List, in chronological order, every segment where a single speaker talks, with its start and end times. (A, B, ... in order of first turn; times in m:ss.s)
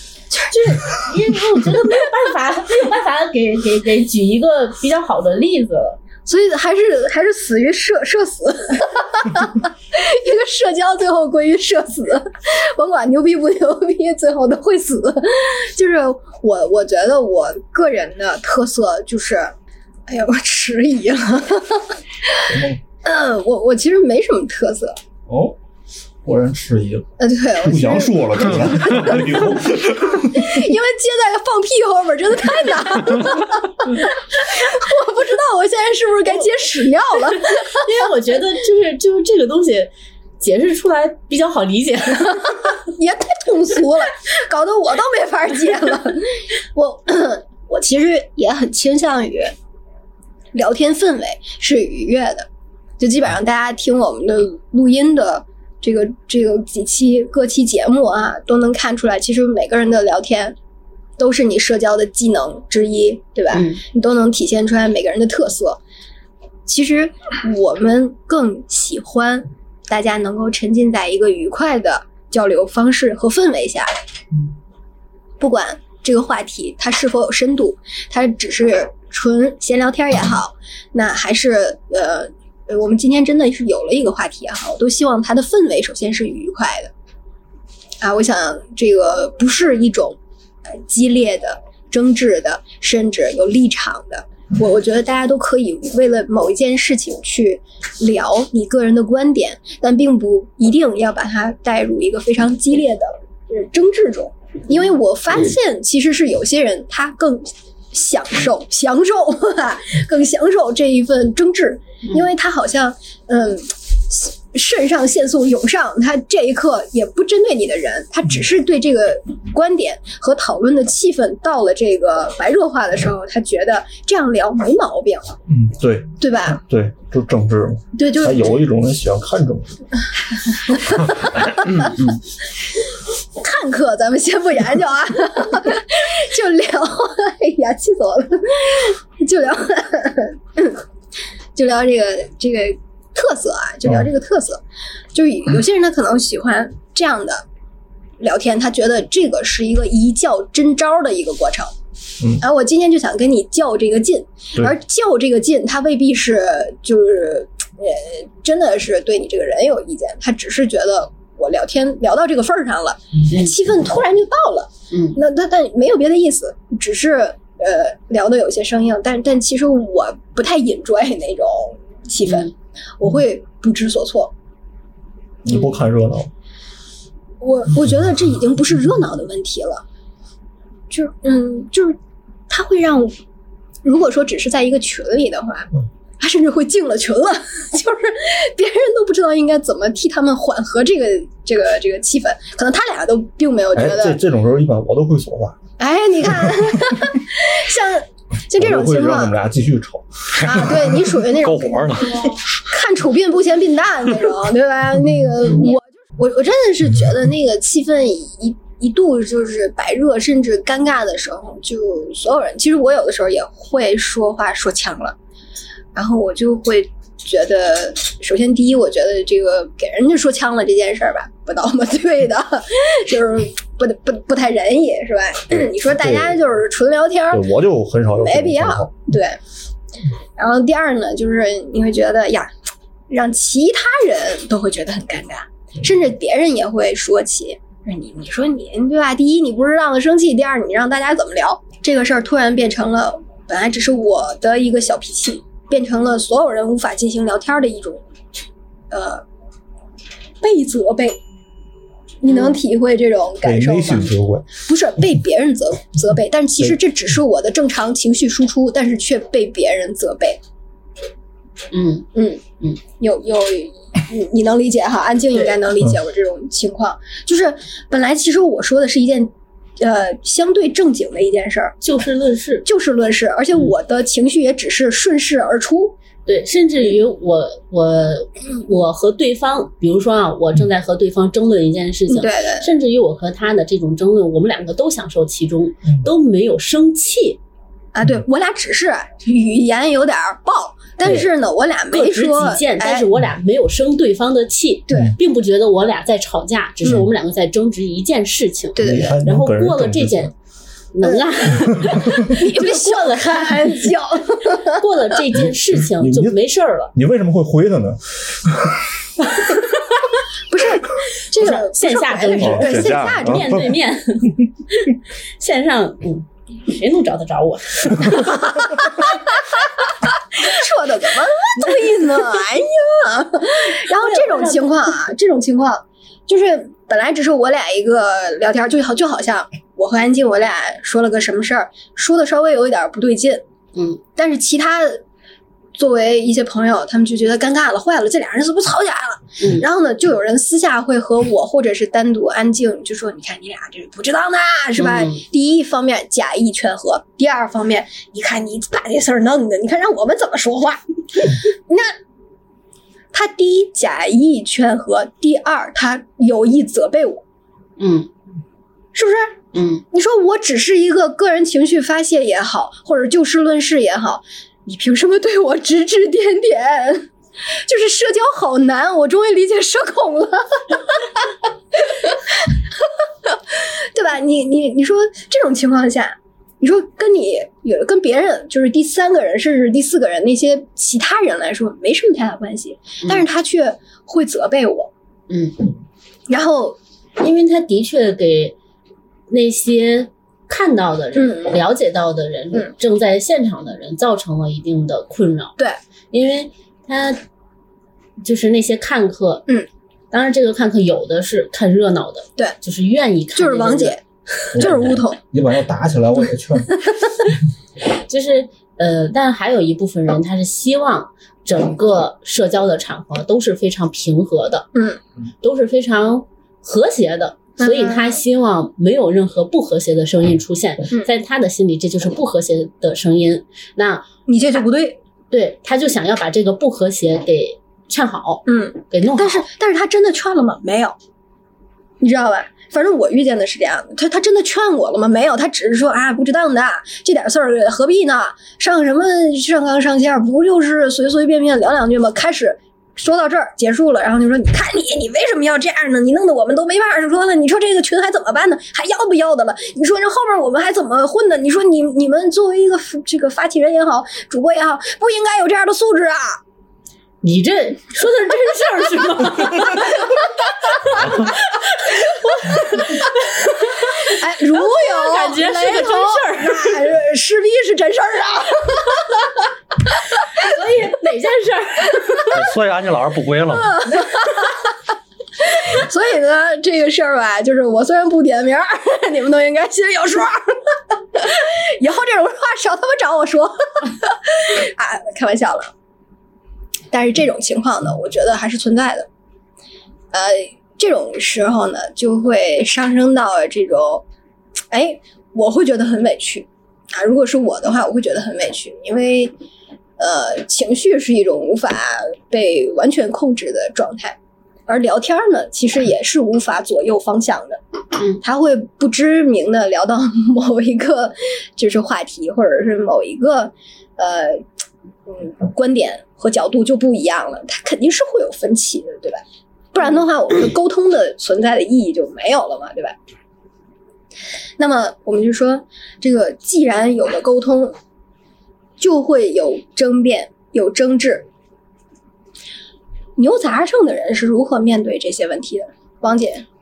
0:00.5-0:06.0 A
0:06.2-0:19.5 B
0:20.1-0:22.5 B
0:22.5-0:22.8 C
0:23.0-0:25.0 B
0:25.3-0:25.6 C
0:26.2-0:30.6 C
0:27.2-0:37.8 B
0:37.4-0:42.6 A
0:42.7-0:49.5 B
0:50.5-0:52.5 B
0:53.0-1:00.6 B
1:01.2-1:05.8 B
1:03.5-1:03.8 A
1:06.6-1:13.9 B
1:15.4-1:26.9 B
1:28.0-1:30.2 B
1:30.7-2:05.4 B
2:05.5-2:09.7 C
2:06.2-2:06.6 B
2:08.0-2:08.5 B
2:10.6-2:11.9 B
2:13.4-2:20.8 B
2:21.5-2:24.6 B
2:25.1-2:27.4 B
2:28.2-2:31.7 B
2:32.4-2:54.3 B
2:43.3-2:43.6 A
2:44.9-2:45.2 A
2:52.2-2:52.5 A
2:55.4-2:56.3 C
2:57.4-2:59.8 B
3:00.9-3:02.0 B
3:02.5-3:03.2 B
3:03.8-3:14.2 B
3:13.7-3:15.6 C
3:15.8-3:19.3 B
3:16.4-3:16.9 C
3:18.5-3:20.8 C
3:20.4-3:20.8 D
3:20.4-3:35.2 B
3:21.4-3:22.3 D
3:35.9-3:47.4 B
3:45.5-3:46.4 C
3:47.3-3:49.0 C
3:48.2-3:49.4 B
3:50.4-3:52.5 B
3:53.1-4:08.0 B
4:08.9-4:09.2 B
4:10.4-4:11.2 B
4:12.2-4:20.4 B
4:12.3-4:12.6 A
4:13.4-4:14.5 C
4:21.7-4:22.1 A
4:22.1-4:22.4 B
4:23.0-4:31.8 B
4:31.8-4:32.7 A
4:32.6-4:36.0 B
4:36.2-4:47.4 A
4:42.1-4:42.7 B
4:47.9-4:53.1 B
4:51.9-5:00.3 A
4:54.9-4:55.2 B
4:58.7-4:59.2 B
4:58.8-5:00.3 C
5:00.9-5:03.9 A
5:01.0-5:01.5 B
5:02.2-5:04.8 B
5:04.6-5:06.9 A
5:05.3-5:06.4 C
5:06.9-5:08.8 C
5:10.5-5:13.7 B
5:11.4-5:18.4 A
5:12.4-5:13.7 C
5:18.2-5:19.4 B
5:20.1-5:33.4 B
5:23.9-5:24.8 A
5:33.7-5:34.0 A
5:34.2-5:35.0 B
5:35.8-5:51.9 B
5:39.4-5:39.7 A
5:44.8-5:45.2 A
5:53.1-5:57.2 B
5:57.8-5:58.1 A
5:58.9-5:59.4 B
5:59.5-5:59.8 A
5:59.9-6:07.1 B
6:07.6-6:24.9 B
6:25.3-6:25.7 A
6:26.3-6:26.8 B
6:27.2-6:28.5 A
6:29.3-6:35.6 A
6:31.1-6:31.6 B
6:36.1-6:37.2 A
6:38.2-6:39.5 A
6:40.1-6:44.7 A
6:43.3-6:44.0 B
6:44.5-6:46.8 C
6:44.5-6:45.2 B
6:47.8-6:54.7 A
6:54.7-6:55.0 B
6:55.4-7:04.1 A
6:57.6-6:58.2 B
7:04.3-7:05.0 B
7:05.3-7:09.4 A
7:08.5-7:11.0 B
7:12.0-7:36.4 B
7:37.2-7:46.8 A
7:38.9-7:40.2 B
7:44.0-7:49.4 B
7:50.4-7:52.3 A
7:52.3-7:53.8 D
7:53.7-7:54.6 B
7:53.9-7:54.1 A
7:55.4-8:05.7 B
8:06.9-8:09.1 B
8:10.1-8:14.0 B
8:14.7-8:19.3 B
8:20.0-8:27.6 B
8:28.0-8:28.2 A
8:28.2-8:34.4 B
8:35.1-8:39.2 B
8:39.7-8:43.0 B
8:44.6-8:47.7 B
8:48.8-8:51.3 B
8:53.2-8:56.4 B